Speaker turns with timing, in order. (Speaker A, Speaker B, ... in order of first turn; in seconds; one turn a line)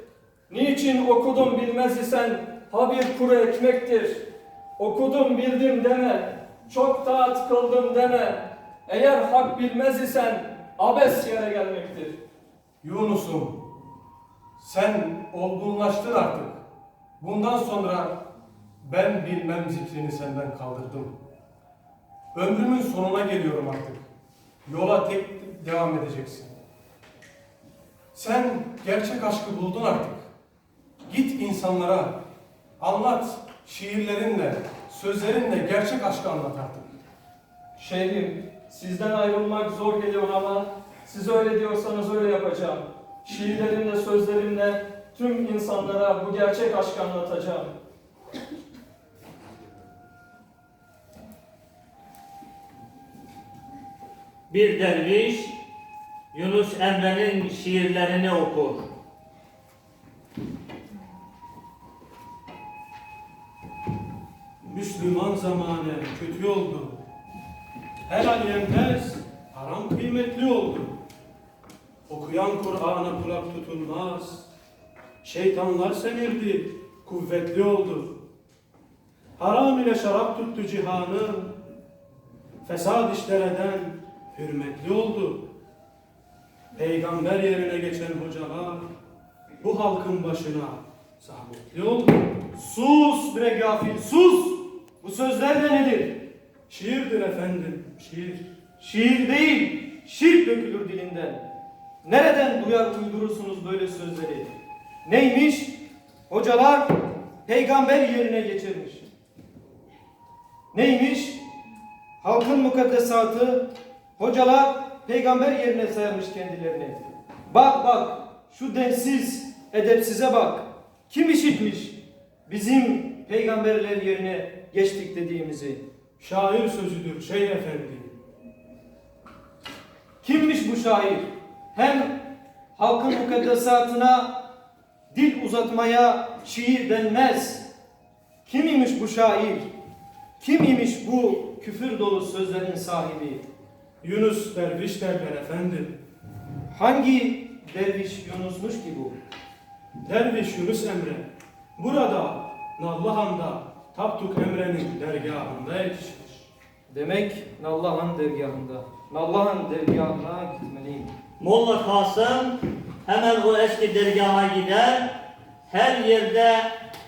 Speaker A: 0.5-4.2
Speaker A: 4.8-12.2
Speaker B: 12.8-13.6
Speaker B: 14.6-16.6
Speaker B: 17.2-18.2
Speaker B: 18.8-21.1
Speaker B: 22.3-24.0
Speaker B: 24.6-26.5
Speaker B: 28.1-30.2
Speaker B: 31.1-32.2
Speaker B: 32.8-36.9
Speaker A: 37.8-47.7
Speaker C: 54.5-55.6
Speaker C: 56.3-58.8
Speaker D: 64.6-67.0
Speaker D: 68.1-71.0
Speaker D: 72.1-74.5
Speaker D: 75.2-78.2
Speaker D: 79.4-81.5
Speaker D: 82.6-85.5
Speaker D: 86.7-88.8
Speaker D: 89.6-92.4
Speaker E: 92.5-96.3
Speaker D: 96.7-98.5
Speaker E: 98.8-101.4
Speaker E: 102.0-105.8
Speaker E: 106.3-106.9
Speaker E: 107.4-109.0
Speaker E: 110.7-111.4
Speaker E: 112.2-113.7
Speaker E: 114.2-125.8
Speaker D: 126.2-128.1
Speaker E: 130.2-132.2
Speaker E: 132.7-134.4
Speaker E: 135.1-137.7
Speaker E: 138.4-139.7
Speaker E: 140.4-143.4
Speaker D: 144.0-146.0
Speaker E: 146.7-149.1
Speaker D: 150.0-156.3
Speaker E: 156.9-161.1
Speaker C: 161.4-165.1
Speaker C: 165.7-166.7